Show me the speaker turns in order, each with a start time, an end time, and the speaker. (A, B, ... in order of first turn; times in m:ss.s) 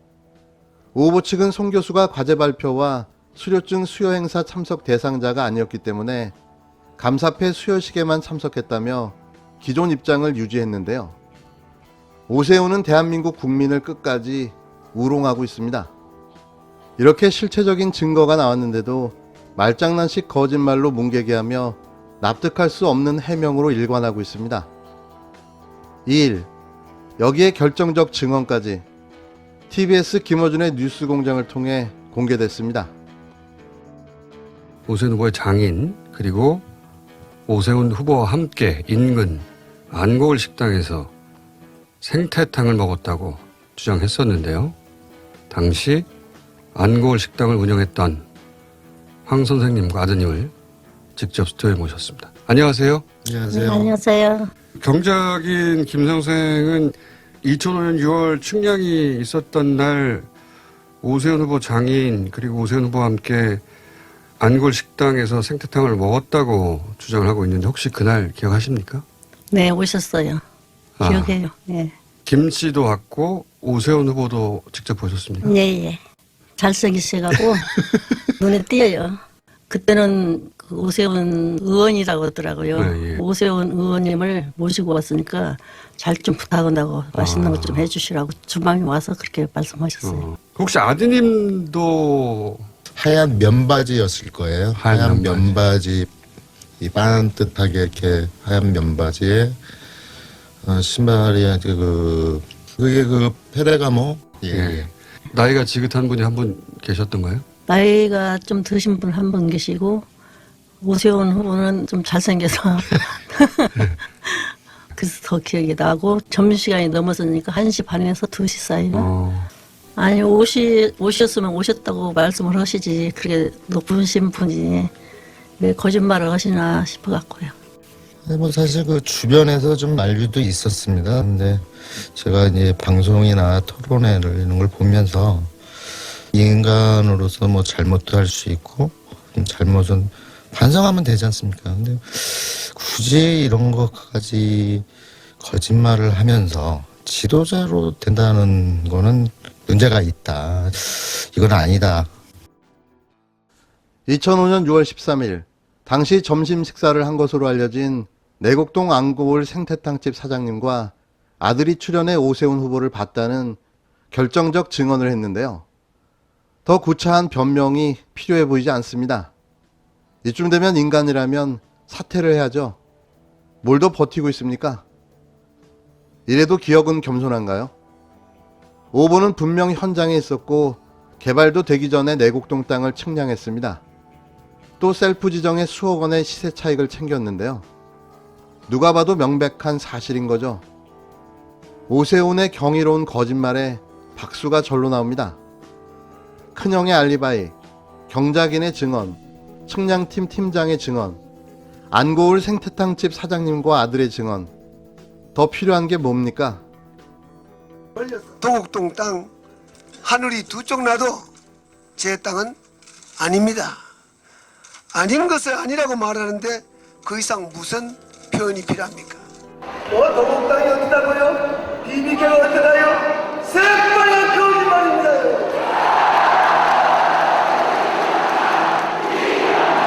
0:01.0-0:06.4 A
0:07.0-0:11.2 A
0:12.3-0:15.9 A
0:17.0-0:24.7 A
0:26.0-0:26.5 A
0:27.2-0:28.8 A
0:29.7-0:32.9 A
0:34.9-0:36.7 B
0:37.5-0:41.1 B
0:42.0-0:44.8 B
0:45.5-0:46.1 B
0:46.7-0:48.3 B
0:49.3-0:50.5 B
0:51.2-0:53.0 B
0:53.2-0:53.9 C
0:53.5-0:54.5 D
0:54.8-1:00.3 B
1:01.0-1:03.6 B
1:04.4-1:09.0 B
1:09.5-1:10.4 D
1:11.0-1:11.4 B
1:11.0-1:11.9 D
1:12.2-1:15.5 B
1:15.4-1:16.0 D
1:16.6-1:17.7 D
1:18.3-1:30.3 D
1:22.8-1:23.2 B
1:27.1-1:27.9 B
1:30.0-1:32.7 B
1:33.0-1:36.1 C
1:34.8-1:35.6 B
1:36.8-1:39.6 C
1:40.6-1:44.9 C
1:44.5-1:47.4 B
1:47.7-1:50.1 D
1:50.8-1:59.1 D
1:58.9-1:59.5 B
2:00.0-2:04.9 D
2:05.6-2:07.6 D
2:08.2-2:15.5 C
2:16.3-2:24.9 C
2:25.4-2:32.1 C
2:34.1-2:43.6 A
2:44.1-2:45.6 A
2:46.6-2:49.3 A
2:50.2-2:52.8 A
2:53.6-2:54.8 A
2:56.3-2:57.7 A
2:58.9-3:03.8 A
3:04.8-3:07.7 A
3:08.7-3:10.6 A
3:11.9-3:15.4 A
3:16.5-3:17.6 A
3:18.1-3:21.2 A
3:21.9-3:24.5 A
3:25.4-3:26.6 A
3:28.0-3:29.3 E
3:30.0-3:31.3 E
3:32.0-3:32.6 E
3:33.2-3:33.8 E
3:34.9-3:39.2 E
3:39.9-3:45.6 E